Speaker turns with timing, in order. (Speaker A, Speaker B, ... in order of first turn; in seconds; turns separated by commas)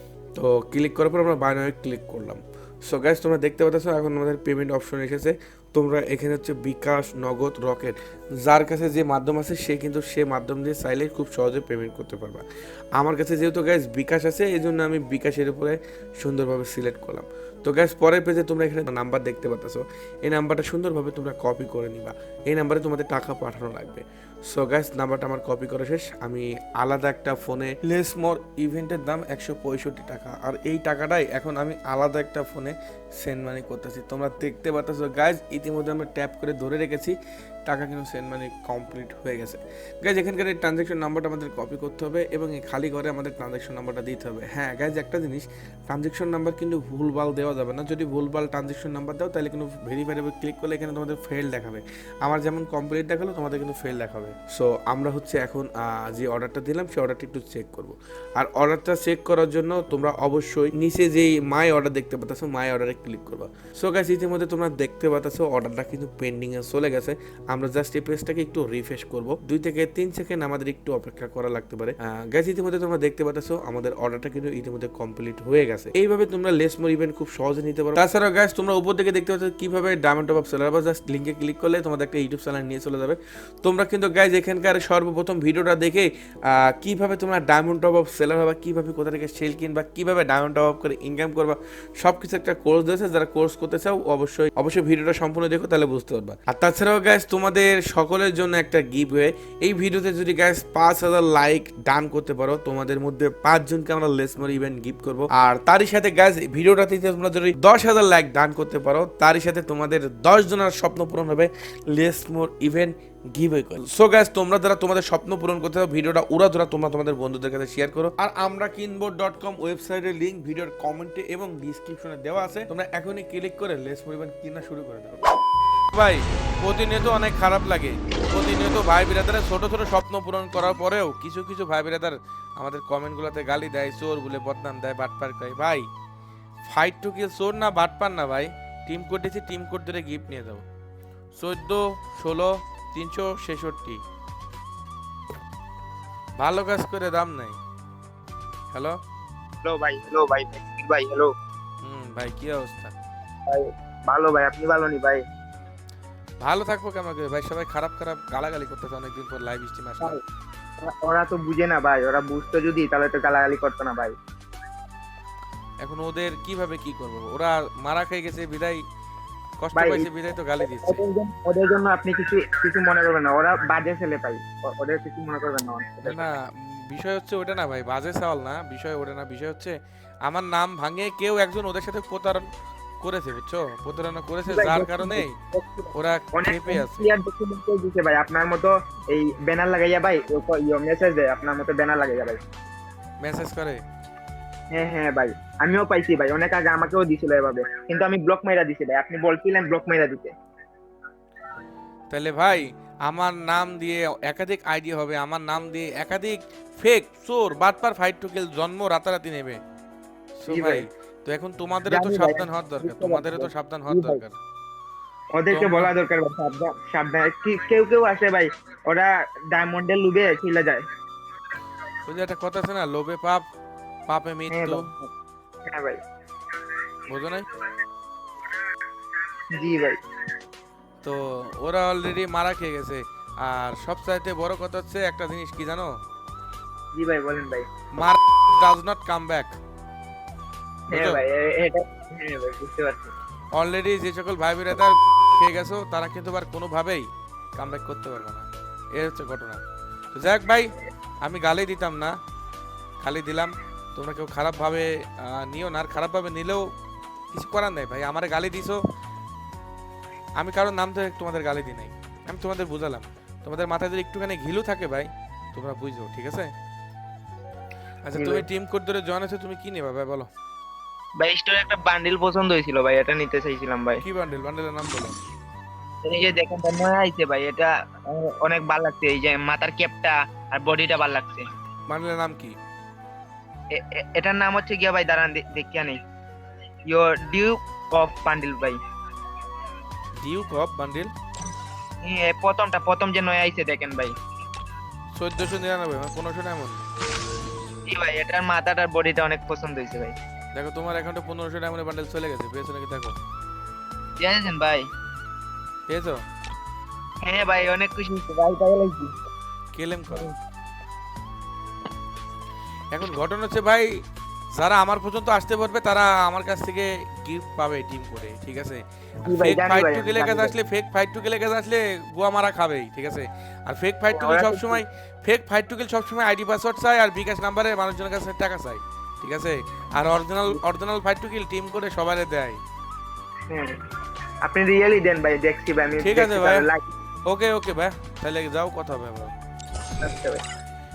Speaker A: 0.3-12.4, Speaker A: 13.0-125.2, Speaker A: 125.9-135.9, Speaker A: 136.6-140.6, Speaker A: 141.4-144.0, Speaker A: 146.4-147.6, Speaker A: 148.7-149.0, Speaker B: 149.6-151.3, Speaker A: 151.8-152.9, Speaker B: 153.5-155.2, Speaker A: 156.4-160.2, Speaker B: 160.8-164.1, Speaker A: 165.8-168.8, Speaker A: 169.6-171.0, Speaker B: 169.7-170.1, Speaker B: 170.6-176.3, Speaker A: 176.0-182.5, Speaker A: 183.0-185.4, Speaker B: 184.5-192.4, Speaker A: 185.9-187.1, Speaker A: 193.2-193.8, Speaker B: 194.7-200.3, Speaker A: 202.1-209.6, Speaker A: 210.3-214.4, Speaker B: 210.5-210.8, Speaker B: 211.9-214.2, Speaker B: 215.3-220.8, Speaker A: 215.5-215.9, Speaker A: 222.1-223.4, Speaker A: 224.1-224.9, Speaker B: 224.5-225.1, Speaker B: 225.7-226.0, Speaker A: 227.1-227.5, Speaker B: 229.6-230.0, Speaker A: 231.0-235.9, Speaker B: 236.9-237.7, Speaker A: 237.9-239.6, Speaker A: 240.9-241.2, Speaker B: 240.9-243.1, Speaker A: 243.6-249.6, Speaker A: 250.1-252.1, Speaker A: 253.0-256.6, Speaker A: 257.3-258.8, Speaker A: 260.4-266.5, Speaker A: 268.0-270.3, Speaker B: 268.1-268.4, Speaker B: 271.2-274.0, Speaker A: 274.0-275.1, Speaker B: 276.0-281.4, Speaker A: 281.9-282.5, Speaker B: 283.7-286.0, Speaker B: 286.9-288.8, Speaker A: 290.2-291.1, Speaker B: 292.0-294.1, Speaker A: 295.1-296.8, Speaker B: 297.9-300.2, Speaker A: 300.5-303.1, Speaker B: 304.2-304.8, Speaker A: 305.9-306.2, Speaker B: 307.2-309.1, Speaker A: 309.7-310.3, Speaker A: 312.9-313.9, Speaker A: 314.6-332.6, Speaker B: 319.2-320.5, Speaker B: 324.1-324.8, Speaker B: 333.5-333.8, Speaker B: 334.4-336.8, Speaker A: 336.0-336.7, Speaker A: 337.2-339.3, Speaker B: 340.0-340.4